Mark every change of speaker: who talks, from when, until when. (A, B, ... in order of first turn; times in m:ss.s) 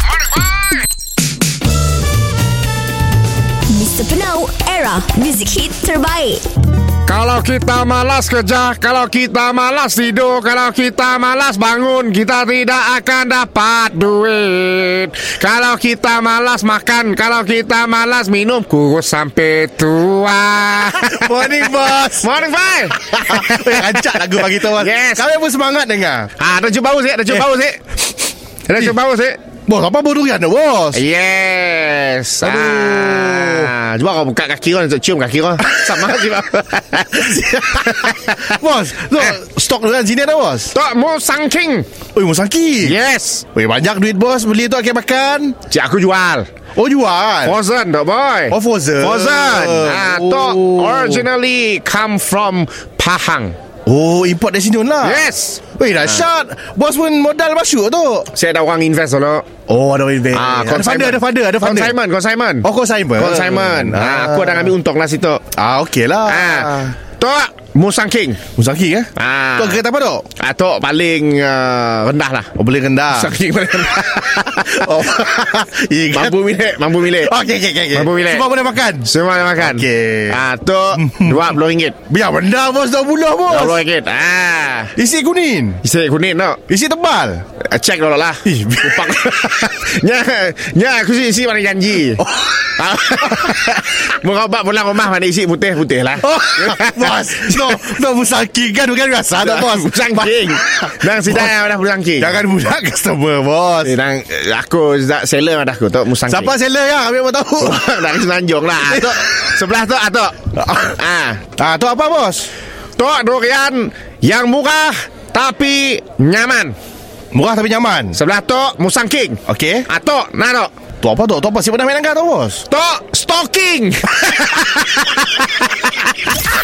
0:03.7-0:06.4 A
0:07.0-0:25.2 B
0:21.0-0:22.3 C
0:23.3-0:26.3 C
0:26.4-0:27.8 B
0:28.7-0:29.4 B
0:29.7-0:31.0 C
0:30.9-0:38.5 B
0:32.4-0:33.7 C
0:38.0-0:40.7 C
0:40.7-0:41.8 B
0:42.1-0:43.0 C
0:42.8-0:43.4 B
0:43.5-0:45.6 C
0:45.7-0:46.4 B
0:46.8-0:47.6 C
0:47.4-0:53.6 B
0:48.5-0:51.2 C
0:53.8-0:55.2 C
0:55.0-0:56.2 B
0:55.7-0:58.3 C
0:58.3-0:59.5 B
0:59.7-1:02.0 C
1:00.3-1:05.4 B
1:02.6-1:04.7 C
1:05.5-1:06.9 C
1:06.3-1:08.4 B
1:08.6-1:10.3 C
1:09.2-1:09.8 B
1:10.4-1:12.5 B
1:12.5-1:13.3 C
1:13.2-1:15.3 B
1:14.7-1:20.4 C
1:16.1-1:17.4 B
1:17.9-1:18.5 B
1:19.0-1:22.0 B
1:21.0-1:21.4 C
1:22.1-1:23.8 C
1:23.5-1:24.9 B
1:25.0-1:25.8 C
1:25.8-1:26.6 B
1:26.7-1:27.4 C
1:27.6-1:37.8 B
1:28.4-1:29.4 C
1:36.2-1:41.5 C
1:39.4-1:42.4 B
1:42.2-1:43.9 C
1:43.8-1:46.5 B
1:46.3-1:47.9 C
1:47.6-1:51.4 B
1:48.8-1:49.2 C
1:51.6-1:52.5 C
1:53.0-1:56.8 B
1:57.3-1:58.2 C
1:58.1-2:00.7 B
1:59.5-1:59.9 C
2:01.0-2:02.6 C
2:02.7-2:05.9 B